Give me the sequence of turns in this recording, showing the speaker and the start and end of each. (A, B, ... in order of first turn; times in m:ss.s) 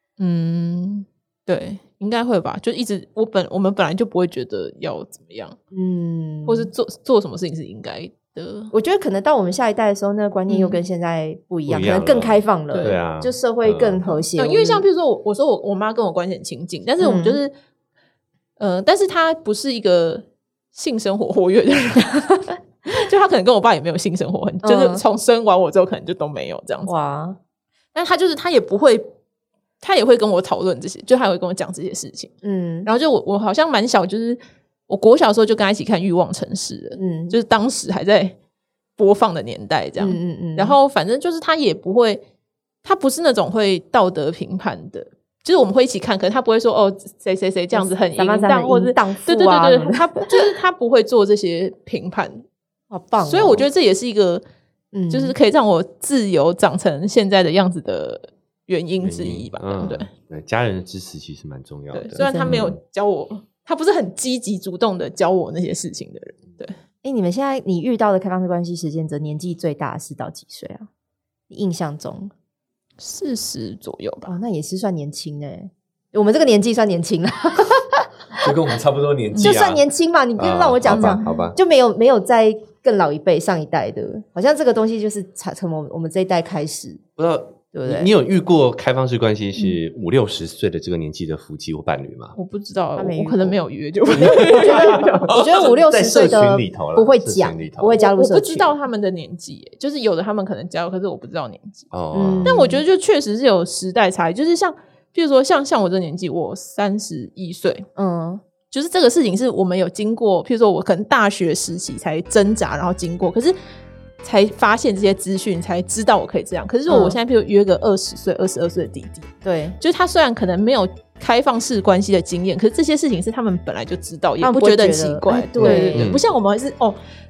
0:00.2-0:05.6 A
0:05.7-0:06.7 B
0:06.4-0:08.7 A
0:08.7-0:14.8 B
0:10.5-0:10.8 A
0:11.7-0:14.0 C
0:12.7-0:13.0 A
0:14.3-0:17.5 A
0:17.0-0:17.4 B
0:18.6-0:26.9 A
0:24.6-0:25.0 B
0:26.8-0:27.4 B
0:27.9-0:29.1 A
0:29.8-0:32.3 A
0:32.4-0:32.9 B
0:32.8-0:38.3 A
0:37.0-0:37.4 B
0:39.0-0:42.2 A
0:40.0-0:40.8 B
0:42.8-0:52.4 A
0:47.7-0:50.4 B
0:52.9-0:53.6 B
0:53.2-0:54.4 A
0:54.9-0:55.4 B
0:55.1-1:00.1 A
0:59.0-1:02.8 C
1:01.9-1:06.8 A
1:02.2-1:02.8 B
1:07.0-1:10.9 B
1:11.5-1:12.3 B
1:13.0-1:14.3 A
1:14.2-1:18.4 B
1:18.4-1:19.8 C
1:19.3-1:27.0 B
1:20.4-1:21.6 C
1:20.9-1:21.5 A
1:27.2-1:32.4 C
1:27.7-1:28.1 B
1:32.4-1:35.7 A
1:33.0-1:38.7 B
1:34.2-1:38.0 C
1:38.0-1:41.9 A
1:41.9-1:42.5 C
1:42.1-1:42.8 B
1:42.4-1:47.8 A
1:48.0-1:48.4 B
1:48.7-1:53.5 A
1:54.2-2:07.0 A
1:56.9-1:57.2 B
1:59.4-1:59.8 B
2:04.4-2:06.1 B
2:05.6-2:06.2 C